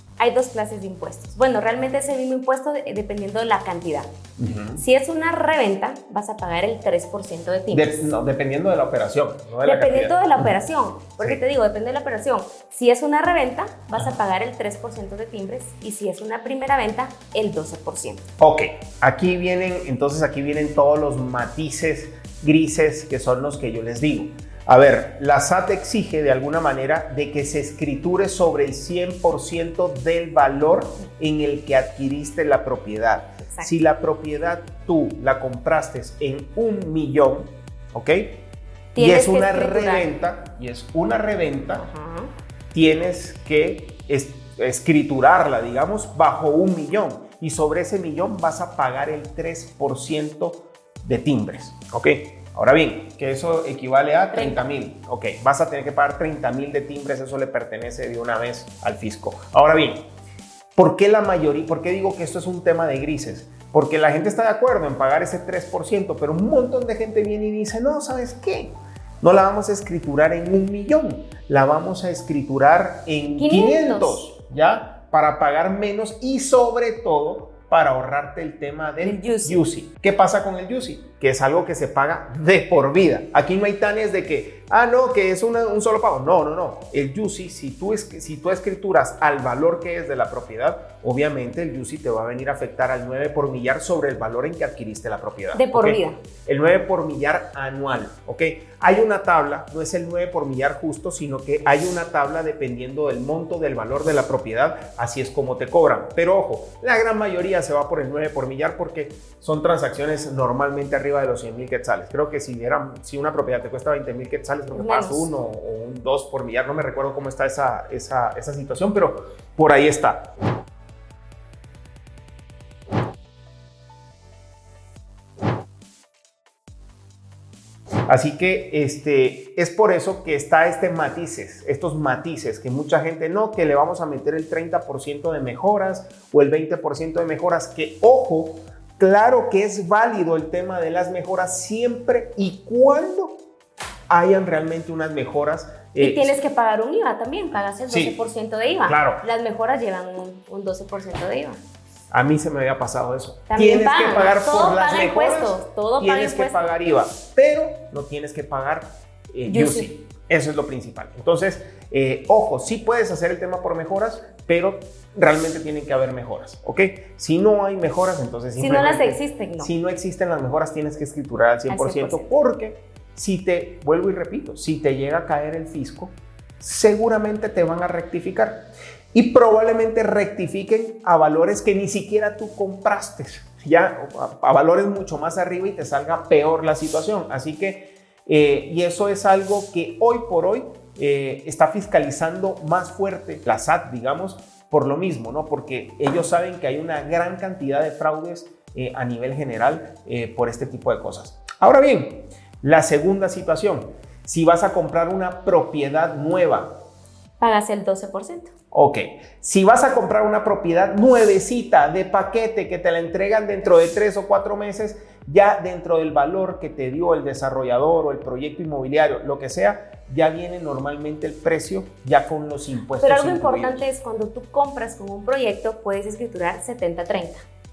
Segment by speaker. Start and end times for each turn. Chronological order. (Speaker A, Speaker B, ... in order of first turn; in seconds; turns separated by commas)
Speaker A: 0.2-4.1, Speaker B: 4.4-4.8, Speaker A: 4.8-8.1, Speaker B: 7.7-10.5, Speaker A: 9.6-18.2, Speaker B: 18.4-38.4, Speaker A: 33.5-33.7, Speaker A: 39.0-40.1, Speaker B: 39.0-41.9, Speaker A: 41.8-42.3, Speaker B: 42.7-60.1, Speaker A: 54.3-54.6, Speaker B: 60.8-120.3, Speaker A: 73.4-74.2, Speaker A: 79.0-79.6, Speaker A: 95.5-96.2, Speaker A: 114.7-115.3, Speaker B: 128.1-143.4, Speaker B: 144.1-146.3, Speaker A: 146.0-151.6, Speaker B: 147.9-148.2, Speaker B: 148.9-149.3, Speaker B: 152.1-206.8, Speaker A: 153.5-156.7, Speaker A: 159.5-159.9, Speaker A: 168.6-169.7, Speaker A: 171.7-172.3, Speaker A: 207.4-208.5, Speaker B: 208.7-223.8, Speaker A: 223.0-227.4